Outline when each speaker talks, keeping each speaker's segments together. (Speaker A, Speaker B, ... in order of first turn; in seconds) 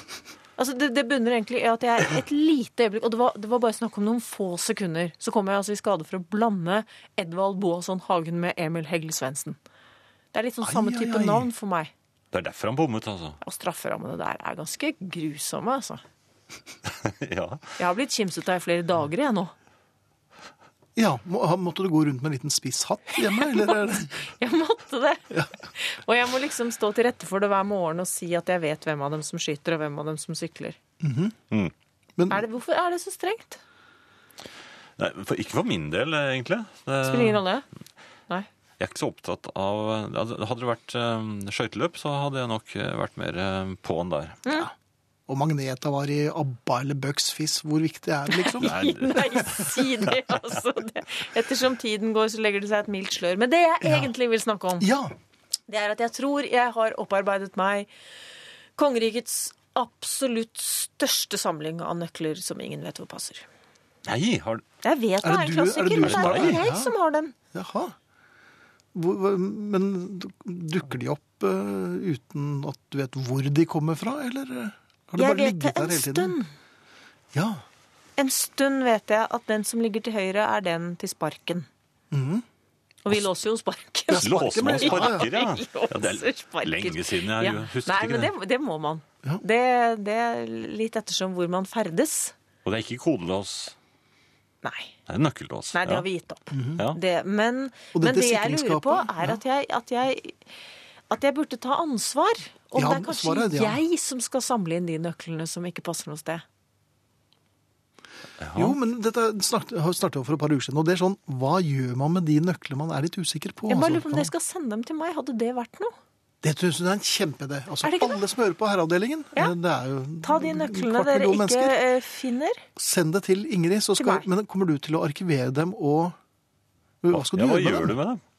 Speaker A: 0.6-9.6, 10.3-11.9, 13.4-16.0, 17.8-19.5, 23.4-30.8, 32.3-33.6, 37.0-37.6, 48.5-54.9, 55.7-57.9, 58.8-63.5, 64.8-67.3, 75.2-76.5, 78.2-81.7, 83.0-92.3, 94.6-94.9, 95.7-100.4, 101.1-106.4, 113.7-115.9, 117.8-118.2, 120.2-122.6, 124.0-124.2
Speaker B: 10.6-11.5, 21.0-24.2, 31.0-31.4, 32.2-32.5, 44.5-44.7, 45.3-48.7, 53.8-54.1, 54.8-55.1, 65.2-67.0, 67.5-68.0, 69.0-76.4, 77.3-77.6, 82.1-82.5, 84.1-85.3, 96.5-96.8, 97.9-99.4, 102.8-103.8, 108.5-114.3, 116.4-121.8, 122.8-126.2, 127.0-128.0
Speaker C: 12.3-13.4, 17.0-17.6, 35.0-37.4, 38.8-44.5, 48.6-50.1, 64.1-64.6, 66.0-66.6, 84.2-88.3, 92.7-93.8, 95.1-96.1, 108.4-108.8, 127.1-128.2